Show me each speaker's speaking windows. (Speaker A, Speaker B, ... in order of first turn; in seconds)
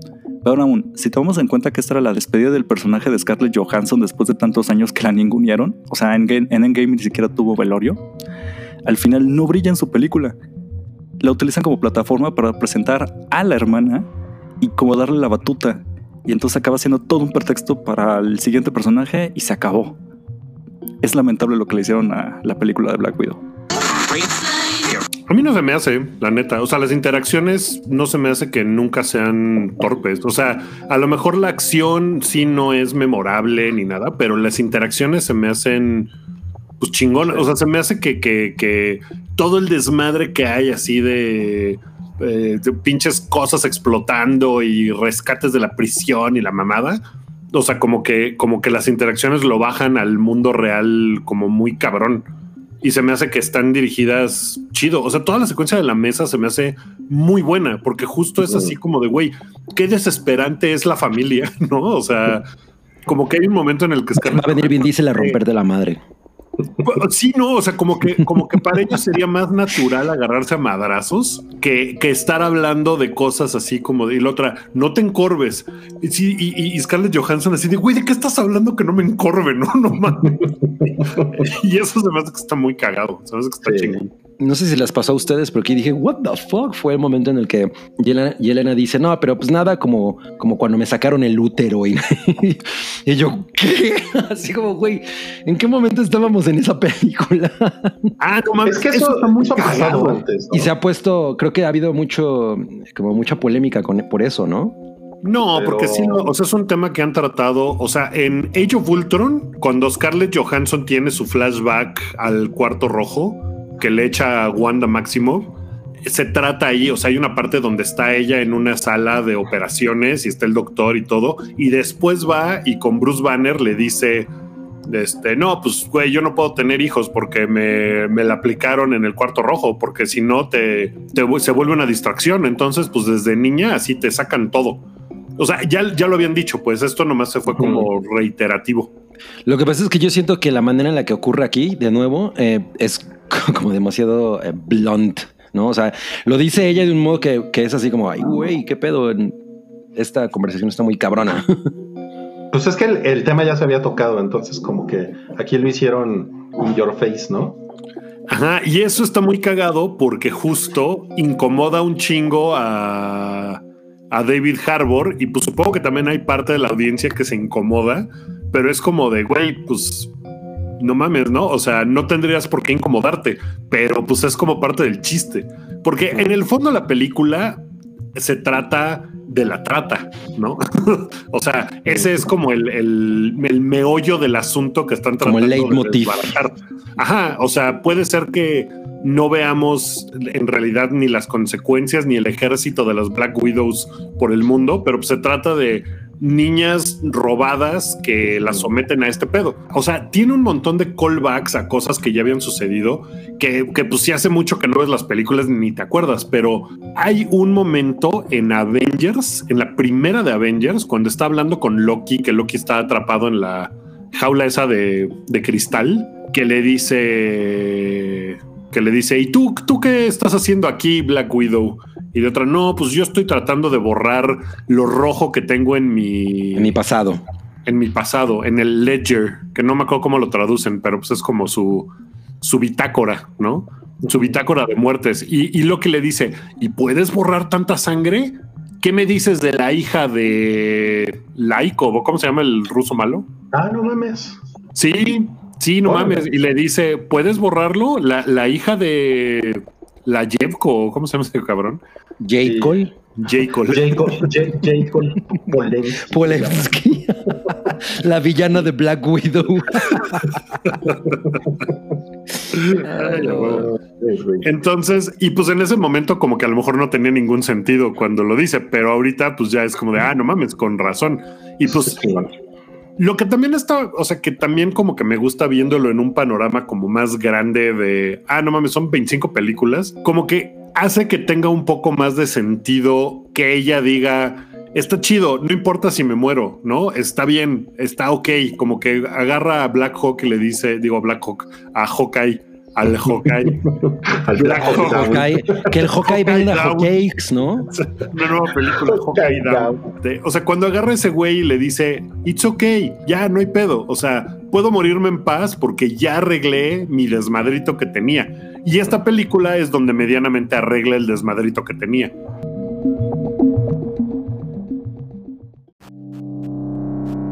Speaker A: 0.4-8.0, 8.8-10.4, 11.2-14.1, 14.6-20.0, 21.0-23.4
Speaker B: 25.3-36.1, 36.8-52.3, 52.8-62.5, 63.1-65.4, 66.8-84.0, 98.2-100.2, 105.2-124.3, 124.9-134.8, 135.4-138.9, 158.3-170.1, 170.8-177.6, 178.2-226.8, 227.7-243.3, 244.8-251.8, 253.2-254.2, 260.7-261.4, 262.5-263.7, 264.4-272.1, 273.0-293.6, 294.4-296.9, 297.7-312.1
Speaker C: 58.4-58.8, 80.8-81.2, 83.7-84.1, 98.7-100.7, 105.5-106.3, 137.5-137.9, 152.5-157.6, 243.5-244.4, 245.8-246.2, 252.4-252.8, 253.7-256.8, 263.4-264.5, 271.7-272.3, 293.5-295.8, 298.8-299.9
Speaker D: 64.2-66.0, 84.4-98.1, 100.5-104.8, 139.5-149.4, 150.0-151.7, 185.2-186.3, 226.6-227.2, 252.2-252.9, 256.1-260.3, 262.8-263.6, 294.5-297.7